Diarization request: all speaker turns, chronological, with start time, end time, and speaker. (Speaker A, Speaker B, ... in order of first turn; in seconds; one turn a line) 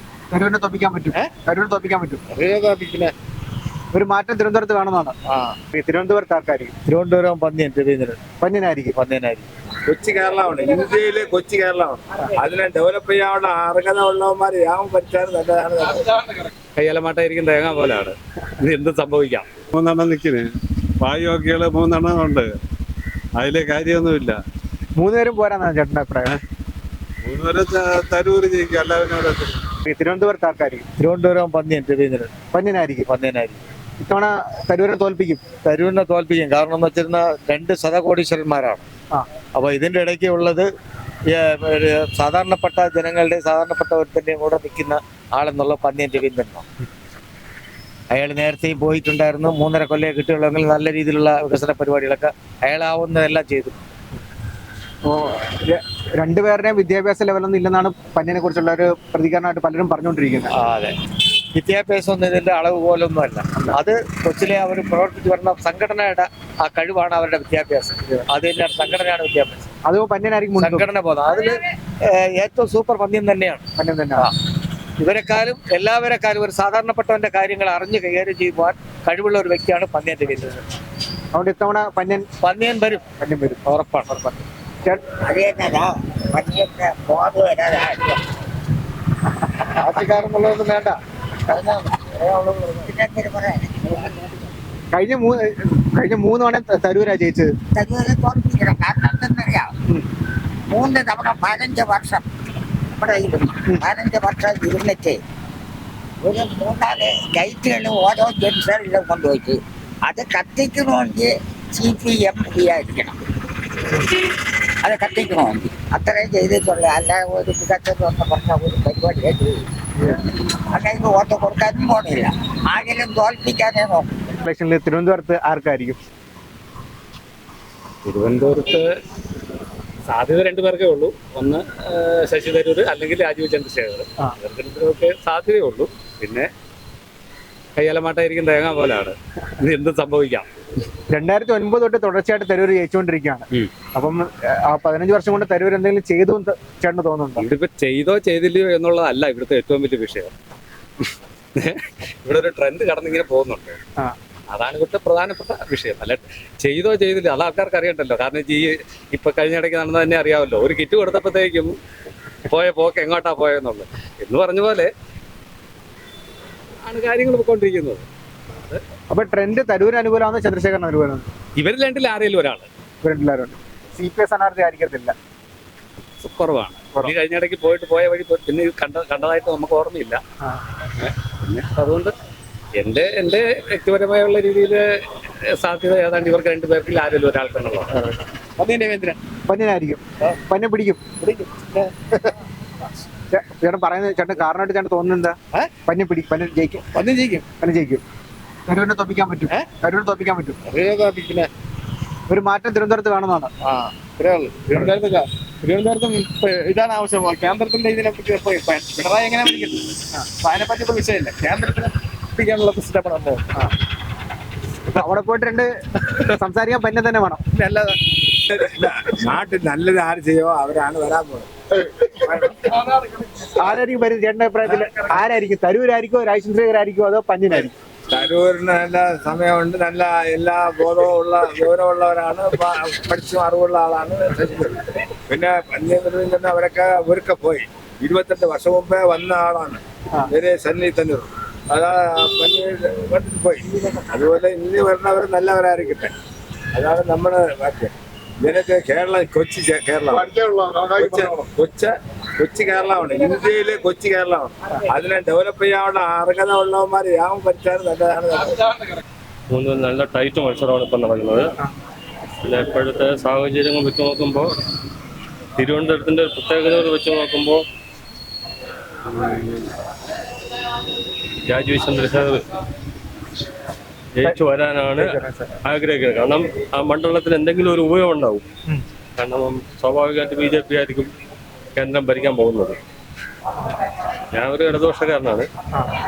Speaker A: 0.3-2.2
Speaker B: 2.3-3.1
Speaker A: 3.9-5.2
Speaker B: 5.3-5.5
Speaker A: 5.7-6.7
Speaker C: 6.9-8.2
Speaker A: 8.4-9.0
Speaker C: 8.9-9.5
Speaker D: 9.9-16.1
Speaker E: 16.8-19.5
Speaker F: 19.8-20.4
Speaker F: 21.1-22.4
Speaker F: 23.4-24.3
Speaker A: 25.0-26.3
Speaker F: 27.3-29.5
Speaker A: 29.9-30.9
Speaker C: 31.0-32.3
Speaker A: 32.5-33.1
Speaker C: 33.1-33.6
Speaker A: 34.0-35.4
Speaker C: 35.6-38.9
Speaker C: 39.5-40.7
Speaker C: 41.3-46.7
Speaker C: 48.1-53.8
Speaker A: 55.1-60.5
Speaker C: 60.5-61.0
Speaker C: 61.5-69.7
Speaker A: 69.8-70.9
Speaker C: 70.6-73.6
Speaker A: 73.8-74.3
Speaker C: 75.0-80.6
Speaker A: 81.3-82.3
Speaker C: 82.4-83.0
Speaker A: 83.2-83.6
Speaker C: 83.7-84.4
Speaker G: 85.2-88.2
Speaker G: 91.5-94.3
Speaker A: 94.9-97.5
Speaker G: 97.7-99.7
Speaker G: 100.7-102.2
Speaker G: 102.9-105.2
Speaker G: 106.2-113.2
Speaker G: 114.8-119.6
Speaker G: 120.7-124.1
Speaker A: 124.3-126.0
Speaker E: 128.1-128.9
Speaker E: 130.1-136.5
Speaker E: 137.8-140.5
Speaker A: 141.1-147.5
Speaker E: 147.4-150.3
Speaker E: 151.6-153.8
Speaker E: 154.5-161.7
Speaker E: 162.5-164.9
Speaker E: 166.9-168.0
Speaker A: 169.1-171.3
Speaker E: 171.6-172.7
Speaker A: 173.0-175.1
Speaker E: 176.2-180.2
Speaker E: 181.0-182.1
Speaker E: 182.8-184.8
Speaker E: 185.6-187.9
Speaker B: 188.6-189.2
Speaker A: 189.5-191.0
Speaker B: 191.2-191.9
Speaker A: 193.3-196.8
Speaker B: 196.9-197.5
Speaker A: 197.6-198.0
Speaker A: 198.7-200.6
Speaker B: 200.7-201.5
Speaker A: 202.3-203.5
Speaker B: 203.6-213.5
Speaker A: 214.9-215.7
Speaker A: 216.3-217.4
Speaker B: 217.5-218.0
Speaker D: 218.6-221.5
Speaker A: 223.4-227.7
Speaker D: 228.1-246.1
Speaker D: 246.8-258.7
Speaker B: 250.4-251.5
Speaker H: 259.5-261.5
Speaker H: 262.4-264.5
Speaker H: 265.6-267.6
Speaker H: 271.5-272.4
Speaker H: 274.1-275.1
Speaker A: 274.9-275.5
Speaker H: 275.6-278.4
Speaker H: 279.2-281.1
Speaker H: 281.8-282.8
Speaker H: 284.3-285.5